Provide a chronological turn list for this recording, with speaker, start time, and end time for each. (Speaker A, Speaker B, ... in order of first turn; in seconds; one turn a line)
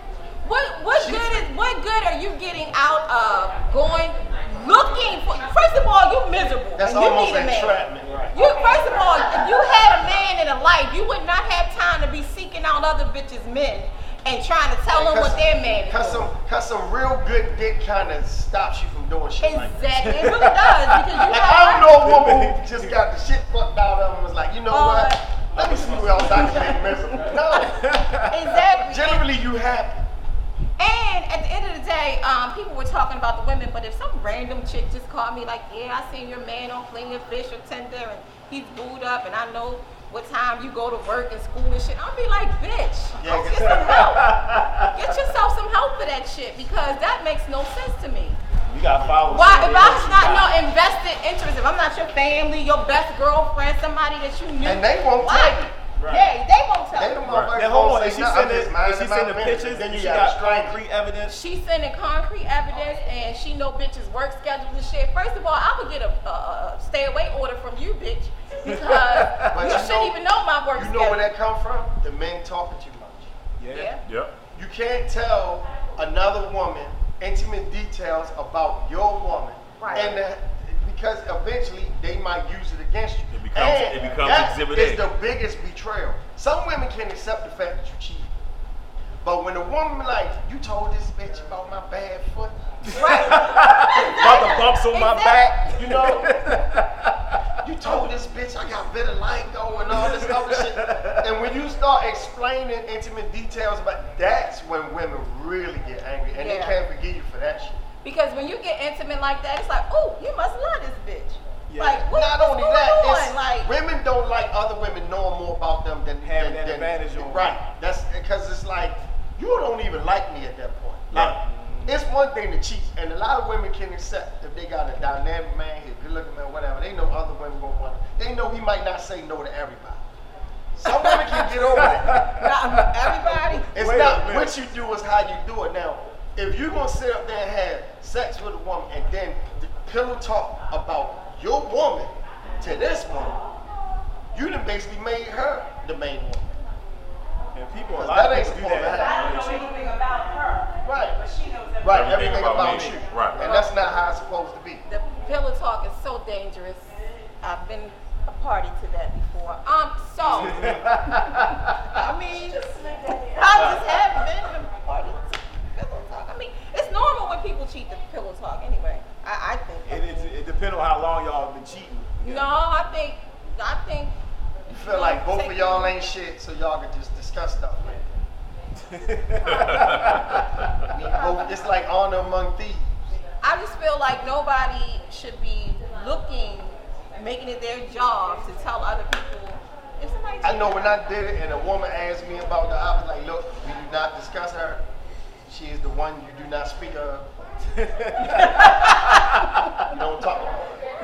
Speaker A: 0.4-7.8
Speaker B: 0.9-1.5
Speaker B: 6.8-8.3
Speaker C: 8.0-8.3
Speaker A: 8.3-16.3
Speaker D: 8.4-9.2
Speaker B: 14.9-19.9
Speaker A: 19.4-22.0
Speaker C: 20.0-21.2
Speaker B: 21.3-28.0
Speaker C: 21.9-22.9
Speaker A: 24.7-25.3
Speaker C: 25.5-28.6
Speaker A: 26.1-27.8
Speaker A: 28.3-29.3
Speaker B: 28.7-30.1
Speaker A: 30.8-48.4
Speaker B: 43.2-44.1
Speaker C: 43.7-45.3
Speaker C: 48.7-50.5
Speaker A: 49.3-57.2
Speaker B: 54.6-55.7
Speaker C: 56.0-56.3
Speaker B: 56.9-60.8
Speaker E: 57.3-57.5
Speaker C: 57.5-61.4
Speaker A: 61.3-71.3
Speaker C: 68.7-69.8
Speaker B: 69.5-70.2
Speaker B: 70.7-73.3
Speaker C: 73.6-74.0
Speaker A: 73.7-74.0
Speaker E: 74.0-74.3
Speaker B: 74.5-88.3
Speaker A: 79.8-80.2
Speaker E: 83.3-85.1
Speaker B: 89.2-93.0
Speaker C: 92.8-97.5
Speaker A: 92.9-96.1
Speaker B: 95.8-96.6
Speaker B: 97.6-107.8
Speaker C: 99.9-101.3
Speaker A: 106.3-106.8
Speaker A: 108.0-113.7
Speaker C: 111.7-112.1
Speaker B: 112.1-130.0
Speaker C: 116.2-117.5
Speaker C: 121.1-122.0
Speaker B: 130.8-132.3
Speaker A: 130.8-133.7
Speaker C: 131.8-134.6
Speaker B: 133.7-143.4
Speaker B: 144.3-146.5
Speaker C: 147.6-149.8
Speaker B: 147.9-149.3
Speaker D: 148.9-152.6
Speaker B: 150.8-151.2
Speaker B: 151.8-154.8
Speaker E: 151.9-153.4
Speaker C: 152.7-152.9
Speaker A: 153.4-153.8
Speaker A: 154.9-162.6
Speaker C: 160.2-162.0
Speaker D: 162.0-164.0
Speaker A: 163.3-170.3
Speaker C: 163.5-163.8
Speaker C: 169.9-172.5
Speaker A: 172.2-174.2
Speaker B: 174.7-178.1
Speaker A: 174.7-175.9
Speaker C: 178.9-180.7
Speaker E: 179.5-180.4
Speaker B: 180.9-183.0
Speaker A: 183.4-190.8
Speaker B: 190.4-194.8
Speaker B: 195.5-197.3
Speaker C: 197.7-199.6
Speaker A: 198.2-199.8
Speaker B: 199.8-200.8